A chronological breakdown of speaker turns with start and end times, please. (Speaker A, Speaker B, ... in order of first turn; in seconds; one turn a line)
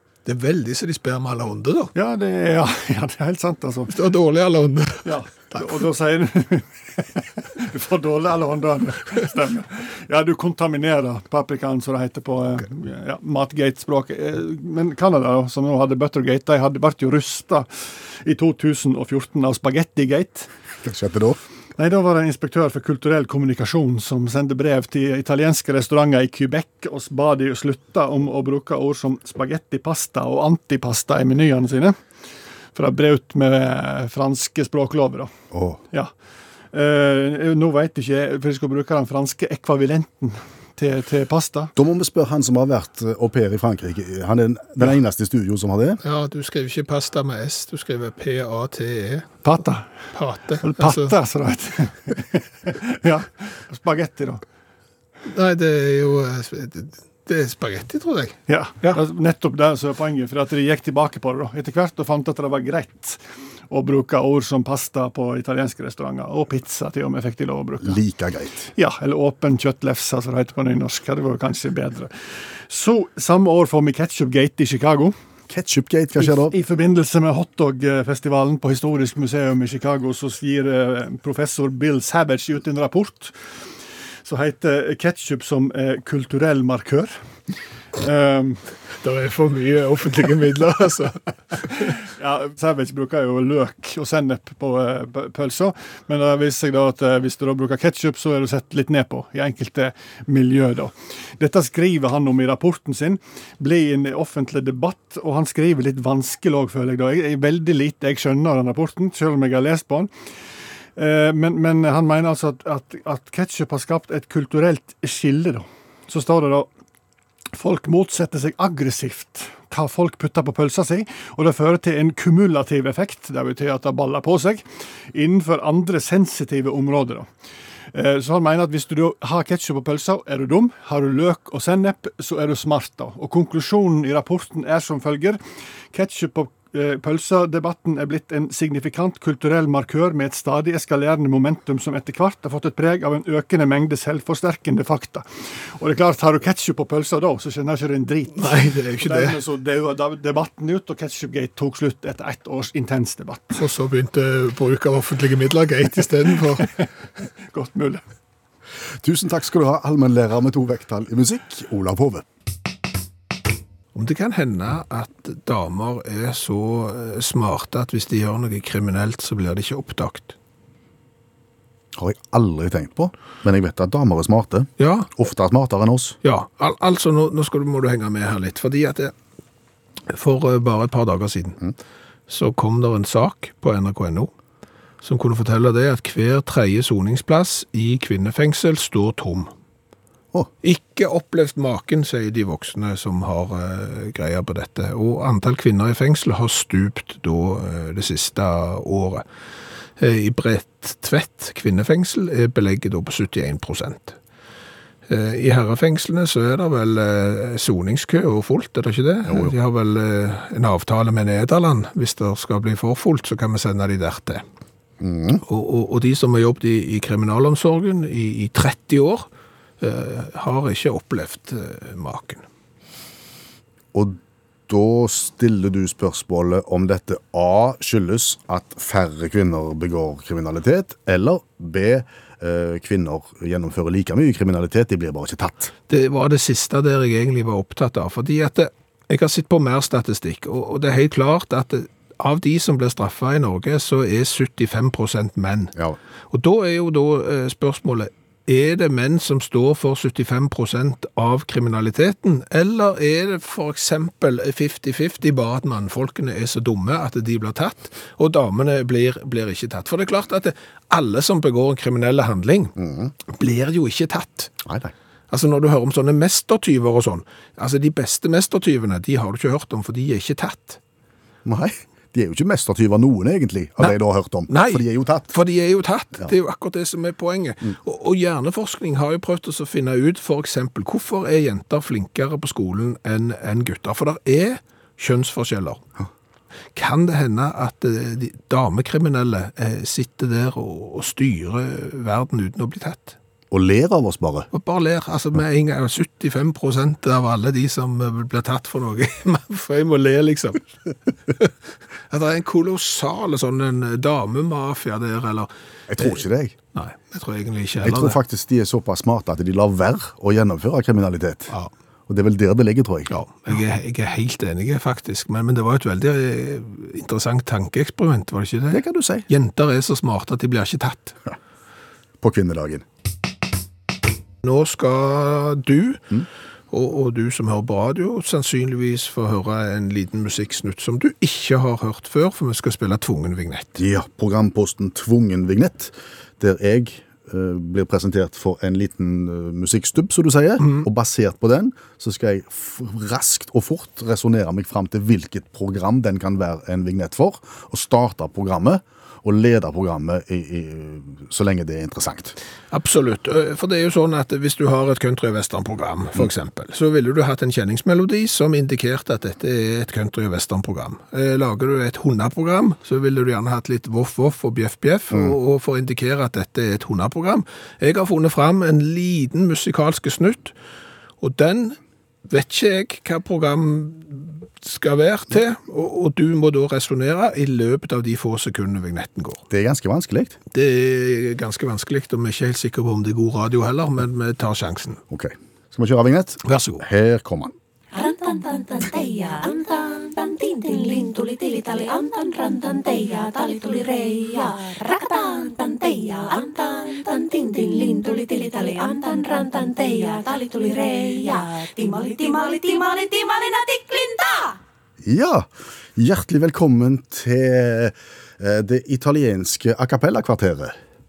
Speaker A: 0.3-1.9
Speaker B: 1.9-3.9
Speaker A: 3.9-5.8
Speaker B: 5.0-17.7
Speaker B: 18.2-20.5
Speaker C: 20.8-21.4
Speaker B: 21.8-32.0
Speaker B: 32.8-35.3
Speaker C: 35.5-35.8
Speaker B: 36.7-41.7
Speaker C: 41.8-46.0
Speaker A: 46.0-49.4
Speaker B: 49.4-49.9
Speaker A: 50.1-51.1
Speaker B: 50.6-54.4
Speaker A: 55.3-59.0
Speaker B: 58.5-63.2
Speaker B: 63.7-68.0
Speaker C: 67.8-68.7
Speaker B: 68.8-72.1
Speaker B: 72.7-75.2
Speaker C: 75.5-76.5
Speaker B: 76.2-83.3
Speaker B: 84.2-87.1
Speaker B: 88.0-88.6
Speaker A: 89.0-91.9
Speaker B: 92.1-110.1
Speaker B: 111.0-116.7
Speaker B: 117.5-127.3
Speaker B: 127.9-135.4
Speaker B: 135.9-153.6
Speaker A: 148.4-149.4
Speaker A: 153.6-156.7
Speaker B: 157.5-158.0
Speaker C: 159.0-162.2
Speaker A: 163.9-170.3
Speaker C: 171.9-176.2
Speaker A: 174.8-175.1
Speaker A: 176.2-179.1
Speaker A: 180.1-181.6
Speaker A: 182.3-184.3
Speaker A: 185.0-189.5
Speaker A: 190.6-199.2
Speaker A: 200.0-204.2
Speaker A: 205.1-214.4
Speaker C: 209.3-209.5
Speaker C: 215.0-215.4
Speaker A: 215.5-219.3
Speaker A: 219.8-222.4
Speaker C: 223.9-235.7
Speaker A: 235.9-245.8
Speaker A: 246.3-262.7
Speaker C: 262.8-263.1
Speaker A: 263.3-264.5
Speaker C: 264.6-264.9
Speaker A: 265.3-270.8
Speaker C: 271.4-275.4
Speaker A: 274.5-285.8
Speaker A: 286.8-293.2
Speaker C: 293.5-294.5
Speaker A: 294.5-300.8
Speaker A: 302.1-306.2
Speaker C: 305.9-306.6
Speaker A: 306.7-308.2
Speaker C: 307.8-311.5
Speaker C: 312.1-313.1
Speaker A: 313.1-321.2
Speaker C: 318.7-319.3
Speaker C: 322.2-322.8
Speaker A: 324.4-326.1
Speaker A: 326.7-333.8
Speaker C: 333.8-352.4
Speaker A: 340.6-340.9
Speaker A: 352.7-370.5
Speaker A: 371.2-379.4
Speaker C: 379.5-380.4
Speaker A: 380.5-385.0
Speaker C: 385.1-387.5
Speaker A: 386.5-386.8
Speaker D: 387.9-404.6
Speaker C: 405.0-410.8